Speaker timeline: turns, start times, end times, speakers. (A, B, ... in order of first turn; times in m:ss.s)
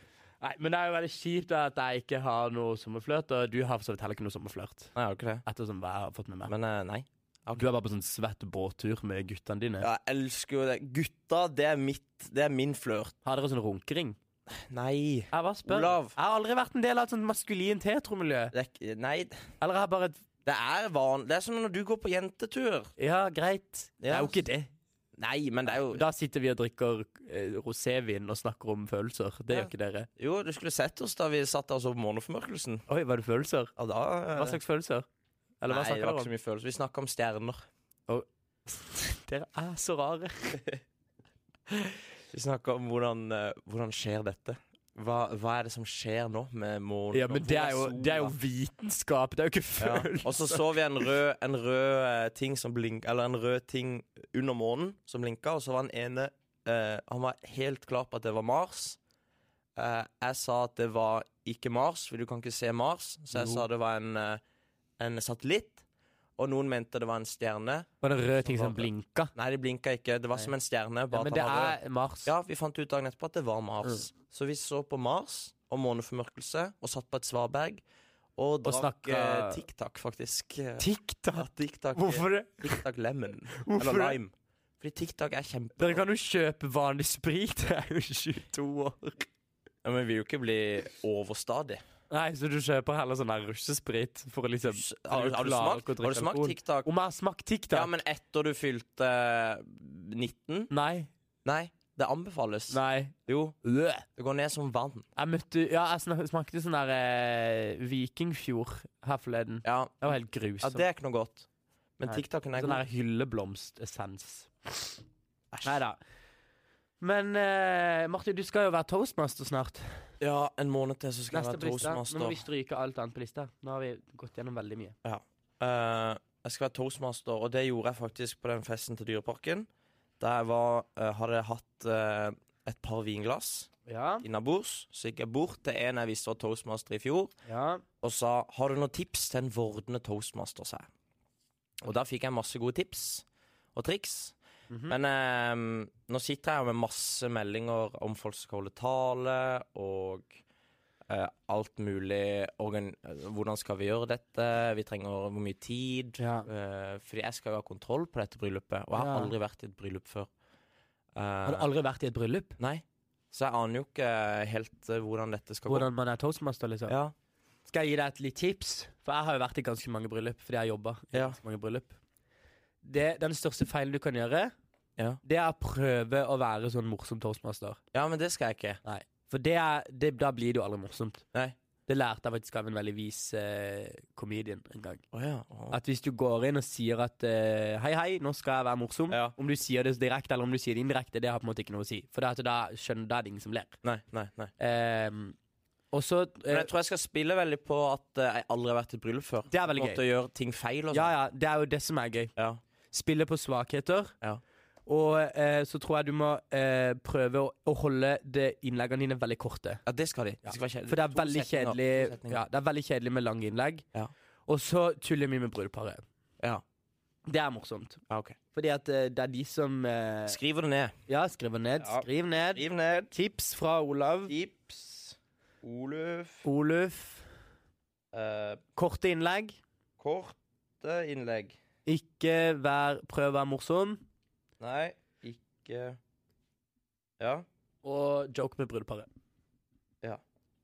0:00.4-0:04.9 A
0:05.0-0:05.4 B
0:05.5-0:06.5 A
0:06.5-0:07.6 B
0:07.6-0:09.9 A
0:09.8-0:13.1 B
0:13.2-0:14.2 A
0:14.7-0:16.2 B
0:15.3-0:18.5 A
0:18.5-0:19.5 B
0:19.6-0:20.2 A
0:20.4-0:22.9 B
0:23.0-0:24.7 A
0:24.0-0:24.4 B
0:25.2-0:26.0 B
0:25.7-0:30.1 A
0:29.5-0:32.9 B
0:32.9-0:33.7 A
0:33.8-0:34.6 B
0:34.3-0:35.1 A
0:35.6-0:36.3 A
0:35.7-0:37.7 B
0:38.1-0:40.6 A
0:42.3-0:48.3 B
0:47.1-0:50.6 A
0:49.8-0:59.0 B
0:59.8-1:04.4 B
1:03.3-1:03.6 A
1:05.0-1:05.8 B
1:06.4-1:17.8 B
1:08.0-1:09.3 A
1:11.1-1:12.3 A
1:18.4-1:26.0 B
1:18.6-1:19.6 A
1:20.8-1:22.8 A
1:23.6-1:24.2 A
1:25.8-1:29.3 A
1:29.8-1:31.8 B
1:32.1-1:37.9 A
1:34.7-1:36.9 B
1:37.7-1:40.7 B
1:40.7-1:41.1 A
1:41.4-1:43.6 B
1:42.7-1:44.1 A
1:44.2-1:45.1 B
1:45.2-1:50.8 A
1:49.6-1:50.1 B
1:50.6-1:51.5 B
1:52.0-1:52.8 B
1:52.1-1:55.0 A
1:55.5-1:55.8 B
1:55.6-1:56.0 A
1:57.0-2:00.1 A
2:00.2-2:02.4 B
2:01.3-2:05.0 A
2:05.0-2:09.7 B
2:10.2-2:13.7 B
2:13.9-2:14.2 A
2:14.2-2:17.3 B
2:17.5-2:17.8 A
2:18.0-2:20.9 B
2:21.8-2:24.4 B
2:24.7-2:25.0 A
2:24.9-2:30.4 B
2:31.1-2:40.3 B
2:36.2-2:36.5 A
2:38.9-2:39.3 A
2:41.2-2:41.7 B
2:41.4-2:42.6 A
2:42.6-2:45.9 B
2:45.7-2:47.0 A
2:46.9-2:47.1 B
2:47.7-2:52.0 A
2:51.1-2:51.4 B
2:52.8-2:54.5 A
2:55.2-2:57.8 A
2:57.9-2:58.8 B
2:58.8-3:01.2 A
3:01.9-3:05.0 A
3:05.1-3:05.8 B
3:05.7-3:13.8 A
3:09.1-3:09.4 B
3:13.8-3:14.5 B
3:14.6-3:15.4 A
3:15.9-3:16.7 A
3:16.5-3:21.1 B
3:19.5-3:20.0 A
3:20.9-3:22.3 A
3:22.4-3:22.6 B
3:22.9-3:24.2 A
3:24.9-3:29.8 A
3:29.9-3:32.4 B
3:30.4-3:33.8 A
3:34.5-3:36.0 A
3:37.3-3:38.0 A
3:38.1-3:38.4 B
3:38.5-3:40.4 A
3:40.3-3:41.0 B
3:41.1-3:44.3 A
3:41.8-3:43.1 B
3:44.3-3:46.5 B
3:46.4-3:47.3 A
3:48.1-3:48.6 B
3:48.8-3:49.6 A
3:50.0-3:51.6 B
3:51.9-3:54.0 A
3:54.6-3:56.0 B
3:57.2-3:57.5 B
3:57.8-3:59.1 A